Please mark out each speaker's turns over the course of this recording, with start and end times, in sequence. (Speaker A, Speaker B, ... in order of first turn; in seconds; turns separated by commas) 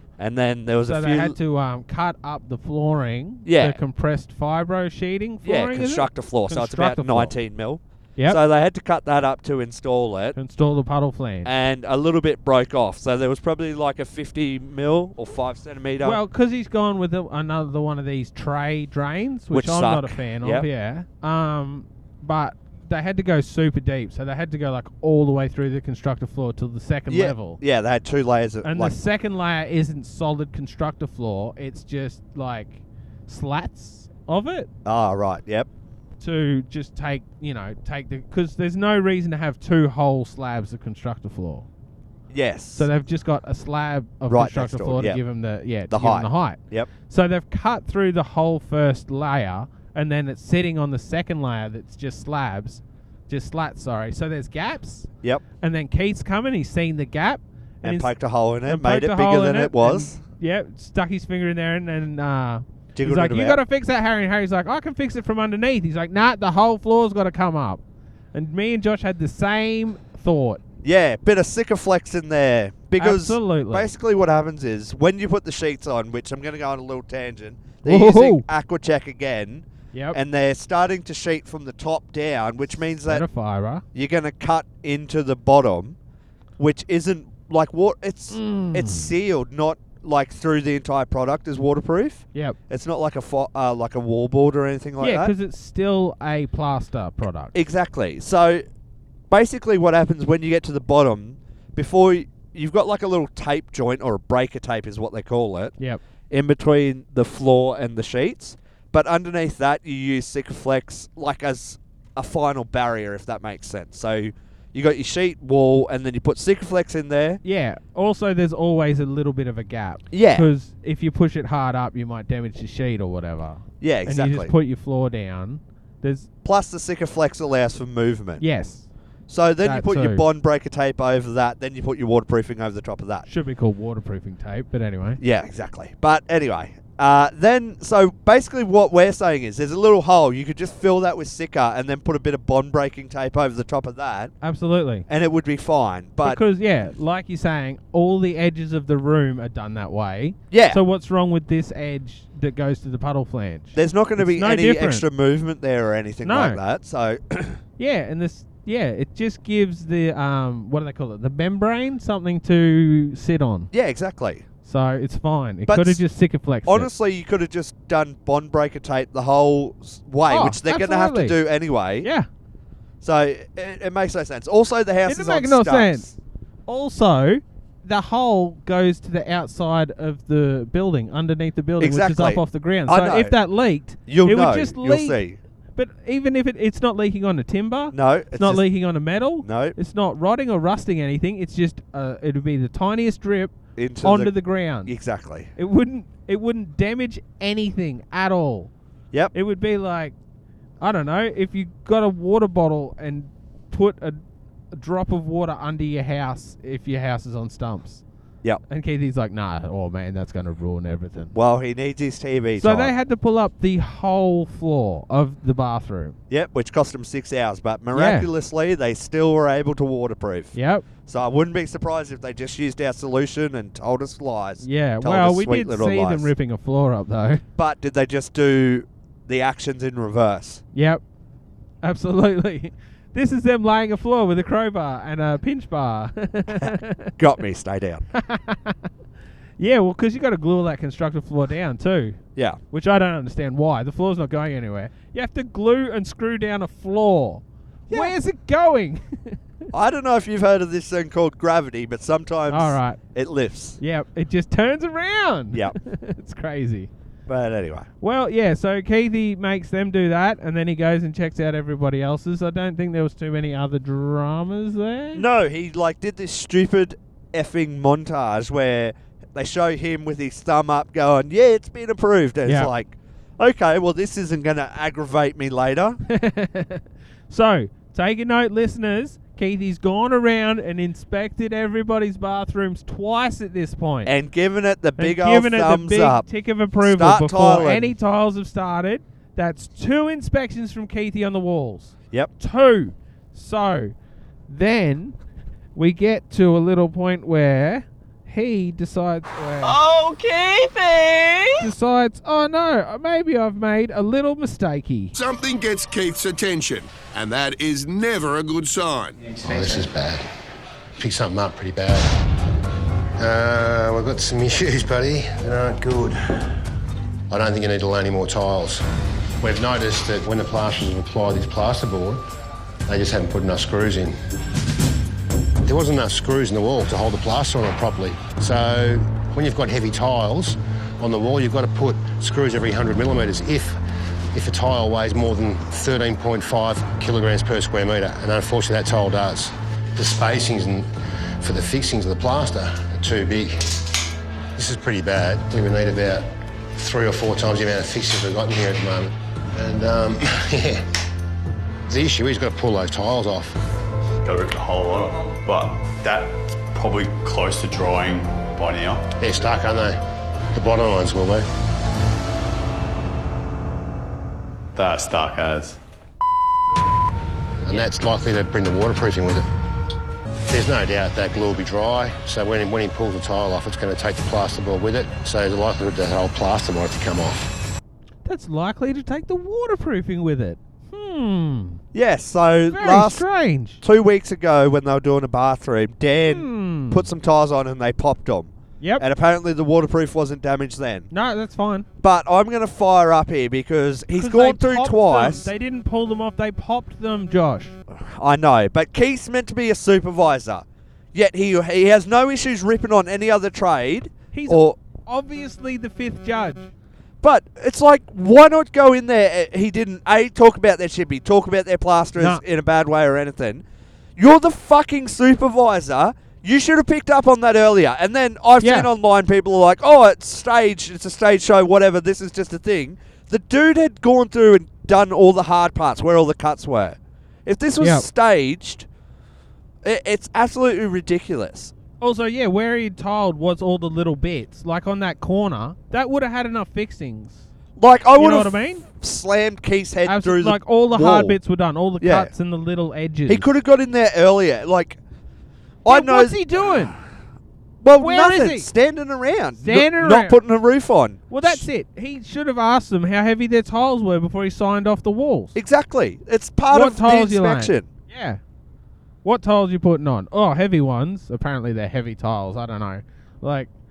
Speaker A: 0.2-1.4, Speaker B: 0.9-7.3, Speaker A: 3.5-3.8, Speaker A: 5.4-10.4, Speaker B: 10.3-11.5, Speaker A: 11.4-16.2, Speaker B: 16.0-27.6, Speaker A: 19.5-20.7, Speaker A: 27.1-28.9, Speaker B: 28.6-34.7, Speaker A: 34.9-35.7, Speaker B: 36.2-41.7, Speaker A: 42.3-42.9, Speaker B: 42.8-55.1, Speaker A: 44.3-45.2, Speaker A: 45.9-46.9, Speaker B: 55.6-58.1, Speaker A: 57.8-60.2, Speaker B: 58.7-67.8, Speaker A: 63.0-63.6, Speaker B: 68.3-70.6, Speaker A: 70.8-83.2, Speaker B: 73.0-73.9, Speaker B: 77.8-78.4, Speaker B: 83.1-83.8, Speaker A: 83.9-86.0, Speaker A: 86.6-95.3, Speaker B: 88.3-89.1, Speaker B: 95.0-97.5, Speaker A: 97.5-98.6, Speaker A: 99.3-105.8, Speaker A: 106.3-117.4, Speaker B: 117.4-126.3, Speaker A: 120.1-120.5, Speaker A: 123.8-124.5, Speaker A: 126.4-128.4, Speaker B: 128.4-128.9, Speaker A: 129.3-133.3, Speaker B: 129.6-130.2, Speaker B: 133.3-135.2, Speaker A: 135.2-144.3, Speaker B: 144.4-145.1, Speaker A: 145.1-146.4, Speaker B: 146.2-155.1, Speaker A: 150.5-150.8, Speaker A: 153.8-157.6, Speaker B: 156.2-156.6, Speaker B: 157.8-163.7, Speaker A: 163.7-164.4, Speaker B: 164.7-166.9, Speaker A: 165.7-166.0, Speaker A: 166.7-172.1, Speaker B: 170.3-171.4, Speaker B: 172.0-172.3, Speaker A: 173.0-176.2, Speaker B: 175.1-176.1, Speaker B: 176.7-185.2, Speaker A: 181.8-183.3, Speaker A: 184.1-185.4, Speaker B: 185.8-194.9, Speaker A: 187.9-188.6, Speaker A: 189.4-189.8, Speaker A: 193.8-194.3, Speaker A: 194.8-195.5, Speaker B: 195.6-198.7, Speaker B: 199.3-200.2, Speaker B: 200.8-204.2, Speaker B: 204.7-208.0, Speaker B: 208.7-211.3, Speaker A: 211.3-212.9, Speaker B: 212.6-216.2, Speaker A: 216.3-220.6, Speaker B: 217.9-218.3, Speaker B: 220.6-220.8, Speaker A: 221.1-226.3, Speaker B: 224.6-227.4, Speaker A: 227.6-230.6, Speaker B: 230.8-231.0, Speaker B: 231.8-237.1, Speaker A: 236.6-238.1, Speaker B: 238.1-238.8, Speaker B: 239.6-249.4, Speaker A: 249.7-253.8, Speaker B: 252.5-253.0, Speaker B: 253.8-256.9, Speaker A: 257.3-257.9, Speaker B: 258.0-265.2, Speaker A: 265.1-276.0, Speaker B: 272.5-272.7, Speaker B: 276.1-284.1, Speaker A: 284.1-286.3, Speaker B: 285.0-293.9, Speaker A: 286.8-287.9, Speaker B: 294.5-295.2, Speaker B: 295.8-299.8, Speaker C: 299.6-301.7, Speaker B: 301.6-305.1, Speaker D: 305.1-309.3, Speaker E: 309.4-310.2, Speaker E: 311.0-312.1, Speaker E: 313.2-316.2, Speaker E: 317.3-318.8, Speaker E: 319.4-322.2, Speaker E: 322.9-324.2, Speaker E: 325.6-333.8, Speaker E: 334.3-343.8, Speaker E: 344.6-350.8, Speaker E: 351.9-353.6, Speaker F: 354.2-359.1, Speaker E: 359.2-360.0, Speaker E: 360.5-361.5, Speaker F: 364.8-365.8, Speaker E: 367.6-369.4, Speaker E: 370.5-377.5, Speaker B: 378.2-381.8, Speaker A: 381.9-383.2, Speaker B: 382.7-383.8, Speaker A: 383.8-391.1, Speaker B: 386.3-387.1, Speaker B: 391.1-391.9, Speaker A: 392.0-395.5, Speaker B: 394.1-397.8, Speaker A: 397.9-404.8, Speaker B: 404.3-406.7, Speaker A: 407.2-413.6, Speaker B: 412.2-412.4, Speaker A: 414.2-428.9, Speaker B: 418.6-418.9, Speaker A: 429.8-431.7, Speaker B: 432.0-437.4, Speaker A: 437.8-441.4, Speaker B: 438.2-438.8, Speaker B: 440.1-443.5, Speaker A: 442.0-442.3, Speaker A: 443.3-445.0, Speaker A: 445.9-446.4, Speaker B: 445.9-447.0, Speaker A: 447.8-451.6, Speaker B: 448.0-448.7, Speaker B: 449.6-450.4, Speaker B: 451.3-455.6, Speaker A: 455.6-457.9, Speaker B: 456.7-458.4, Speaker B: 459.2-463.7